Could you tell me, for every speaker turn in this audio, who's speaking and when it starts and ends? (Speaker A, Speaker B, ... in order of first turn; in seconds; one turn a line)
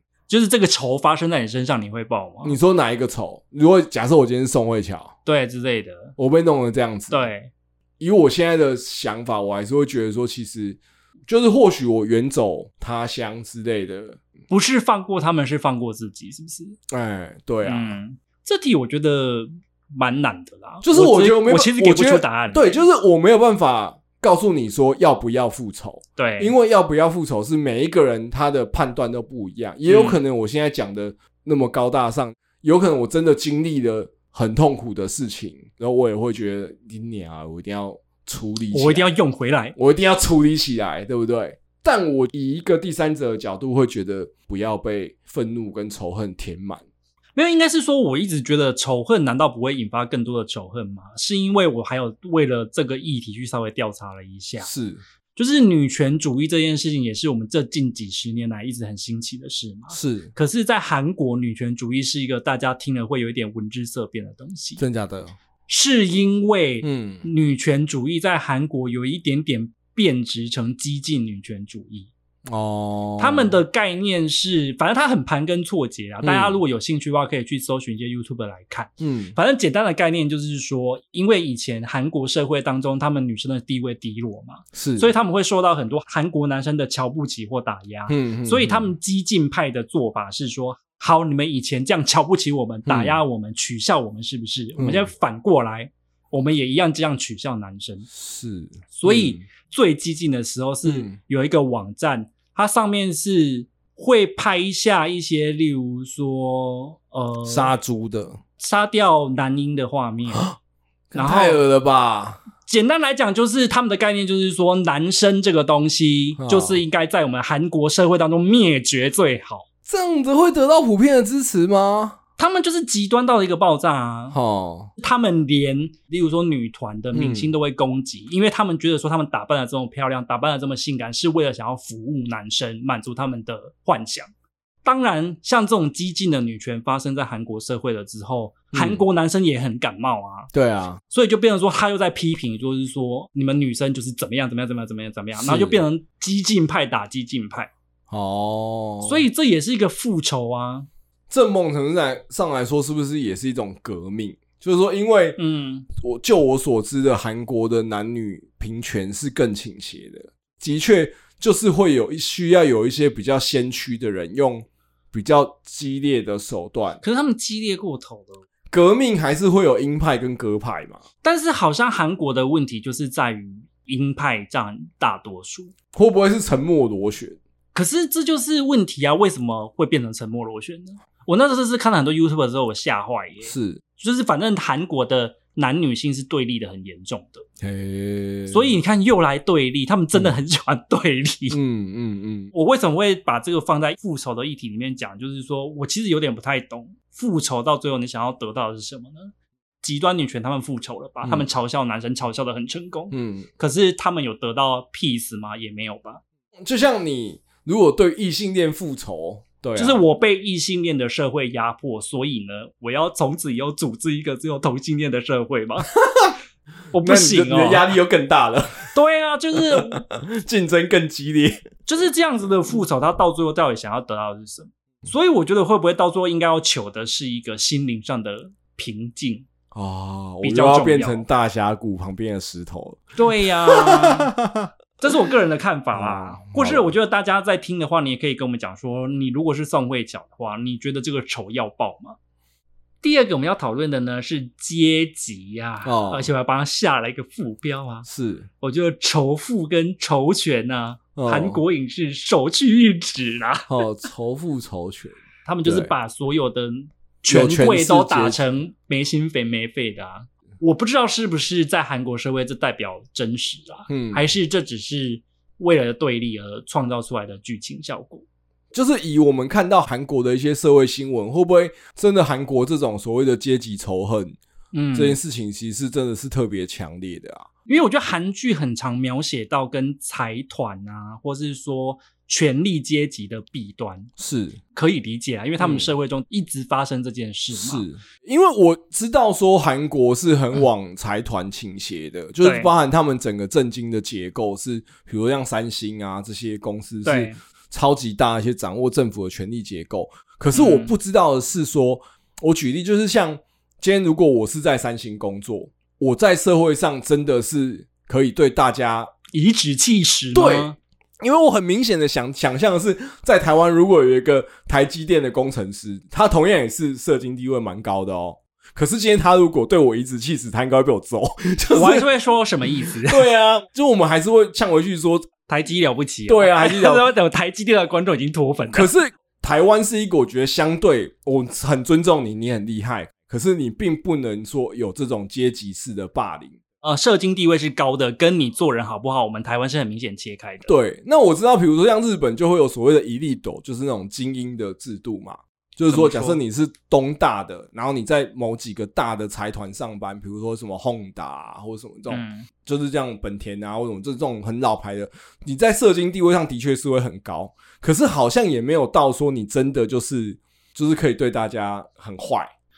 Speaker A: 0.3-2.6
Speaker B: 2.4-5.1
Speaker A: 5.2-6.2
Speaker B: 6.2-7.3
Speaker A: 7.1-7.5
Speaker B: 8.0-14.2
Speaker A: 14.5-16.8
Speaker B: 16.9-18.0
Speaker A: 17.6-22.8
Speaker B: 20.8-39.1
Speaker A: 26.2-26.5
Speaker A: 29.9-30.2
Speaker A: 38.7-39.8
Speaker B: 39.8-46.9
Speaker A: 47.4-54.7
Speaker B: 54.6-55.0
Speaker A: 55.4-64.8
Speaker B: 59.9-60.3
Speaker B: 64.8-65.3
Speaker A: 65.7-72.1
Speaker B: 66.8-67.2
Speaker B: 72.5-73.6
Speaker A: 73.2-98.1
Speaker B: 76.2-76.6
Speaker B: 79.0-79.4
Speaker B: 84.7-85.1
Speaker B: 88.1-88.9
Speaker B: 92.9-93.2
Speaker B: 94.8-95.1
Speaker B: 98.1-99.4
Speaker A: 98.9-107.7
Speaker B: 100.8-101.2
Speaker B: 107.5-108.4
Speaker A: 108.6-110.5
Speaker B: 111.1-112.4
Speaker A: 111.2-111.6
Speaker A: 112.6-119.7
Speaker B: 116.4-116.8
Speaker B: 119.9-122.2
Speaker A: 122.4-124.4
Speaker B: 124.3-124.9
Speaker A: 125.0-134.3
Speaker B: 127.1-127.5
Speaker A: 134.8-140.5
Speaker B: 138.7-139.0
Speaker B: 140.5-141.0
Speaker A: 141.1-147.7
Speaker B: 145.4-145.8
Speaker B: 148.1-149.3
Speaker A: 149.0-150.9
Speaker B: 151.3-155.4
Speaker A: 155.4-155.9
Speaker B: 155.9-167.0
Speaker A: 167.0-168.4
Speaker B: 168.7-171.0
Speaker A: 171.2-175.7
Speaker B: 175.9-177.4
Speaker A: 177.7-187.4
Speaker B: 183.4-183.8
Speaker B: 187.6-188.8
Speaker A: 188.5-191.6
Speaker B: 191.5-192.5
Speaker A: 192.5-206.2
Speaker B: 203.1-203.5
Speaker B: 206.6-210.0
Speaker A: 209.8-215.9
Speaker B: 216.0-216.3
Speaker A: 216.9-217.9
Speaker B: 217.0-218.9
Speaker A: 218.9-220.0
Speaker B: 219.6-221.7
Speaker A: 221.9-229.5
Speaker B: 229.7-234.7
Speaker A: 230.4-231.2
Speaker A: 233.2-234.3
Speaker A: 235.0-242.2
Speaker B: 235.9-236.9
Speaker A: 243.0-248.1
Speaker B: 245.8-246.3
Speaker B: 248.1-248.5
Speaker A: 248.6-253.7
Speaker B: 251.2-251.6
Speaker B: 253.7-255.9
Speaker A: 255.5-268.2
Speaker B: 257.3-258.4
Speaker B: 263.9-264.2
Speaker B: 268.7-274.4
Speaker A: 274.7-275.2
Speaker B: 274.9-277.5
Speaker A: 277.7-284.1
Speaker B: 284.2-284.6
Speaker A: 284.7-287.9
Speaker B: 285.6-285.9
Speaker B: 287.5-309.1
Speaker A: 292.4-292.7
Speaker A: 297.1-297.4
Speaker A: 300.5-300.9
Speaker A: 309.3-310.8
Speaker B: 310.3-322.1
Speaker A: 321.7-323.3
Speaker B: 322.8-325.3
Speaker A: 325.5-328.9
Speaker B: 326.3-327.1
Speaker B: 328.7-336.6
Speaker A: 336.8-340.7
Speaker B: 340.7-362.5
Speaker A: 345.9-346.4
Speaker A: 352.1-352.5